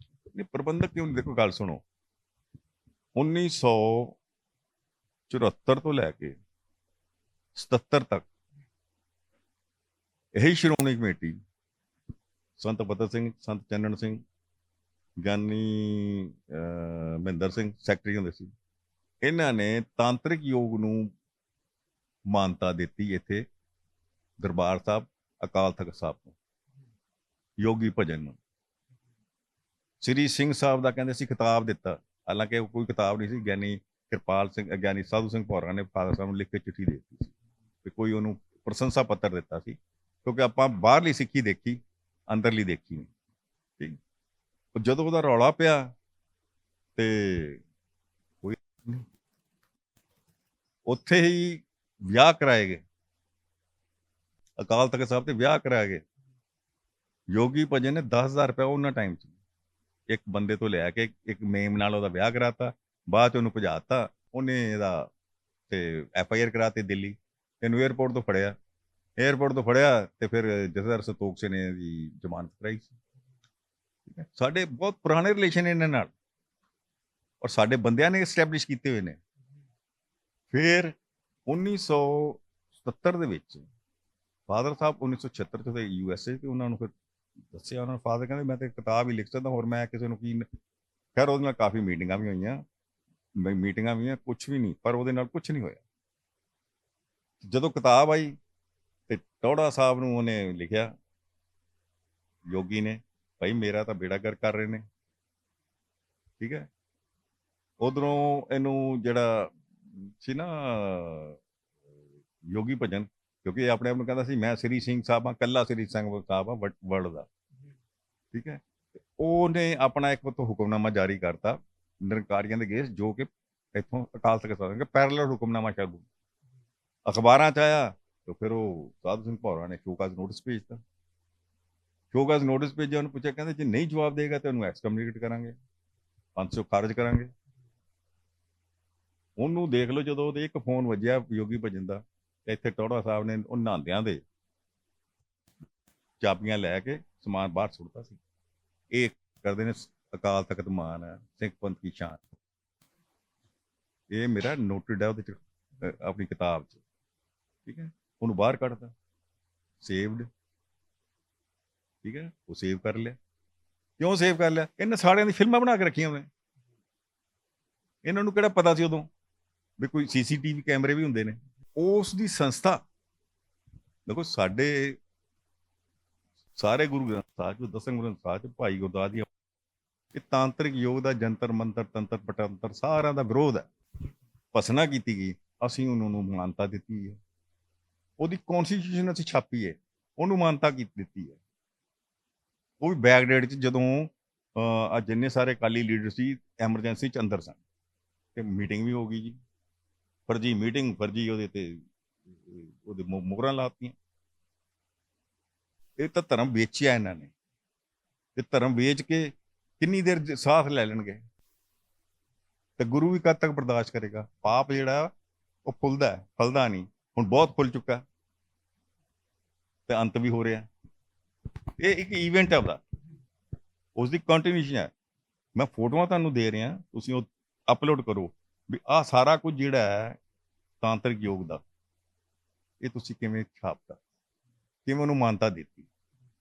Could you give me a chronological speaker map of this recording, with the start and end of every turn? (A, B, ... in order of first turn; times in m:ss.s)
0:00.3-0:01.8 A
0:03.2-0:04.2 A
0:05.3-0:06.4 A
0:07.6-0:08.2 A
0:10.4-0:11.4 A
0:12.6-0:14.2 A
0:15.2-0:18.5 A
0:19.2-0:21.1 A
0:22.3-0:23.5 A
0:24.4-0:26.4 A
0:27.6-0:28.4 A
0:30.0-0:37.3 A
0:37.8-0:43.1 A
0:44.8-0:45.9 A
0:47.0-0:47.6 A
0:48.4-0:49.1 A
0:50.9-0:52.8 A
0:54.6-0:56.0 A
0:57.3-0:59.3 A
1:00.1-1:05.1 A
1:05.7-1:08.6 A
1:09.2-1:12.9 A
1:14.1-1:16.1 A
1:17.4-1:19.2 A
1:20.5-1:21.0 A
1:21.5-1:23.6 A
1:24.5-1:26.9 A
1:27.5-1:30.5 A
1:31.2-1:32.6 A
1:33.4-1:35.8 A
1:37.4-1:38.4 A
1:39.1-1:40.9 A
1:42.5-1:44.8 A
1:46.4-1:46.7 A
1:47.8-1:51.4 A
1:52.4-1:57.3 A
1:58.3-1:58.6 A
1:59.2-2:06.0 A
2:07.1-2:10.8 A
2:12.1-2:15.6 A
2:16.4-2:17.3 A
2:19.4-2:24.2 A
2:26.2-2:28.2 A
2:28.9-2:32.2 A
2:34.1-2:36.8 A
2:37.7-2:38.9 A
2:39.8-2:40.3 A
2:42.0-2:43.2 A
2:44.0-2:46.3 A
2:48.0-2:49.1 A
2:49.8-2:52.8 A
2:54.1-2:55.0 A
2:56.6-2:59.3 A
3:00.1-3:03.7 A
3:04.5-3:07.2 A
3:08.2-3:11.4 A
3:12.8-3:17.6 A
3:18.4-3:19.4 A
3:20.3-3:24.0 A
3:26.0-3:27.3 A
3:28.4-3:31.2 A
3:32.8-3:35.1 A
3:35.6-3:38.0 A
3:39.9-3:40.7 A
3:41.8-3:42.8 A
3:44.0-3:44.9 A
3:45.6-3:50.2 A
3:50.8-3:51.6 A
3:52.8-3:54.0 A
3:54.9-3:55.9 A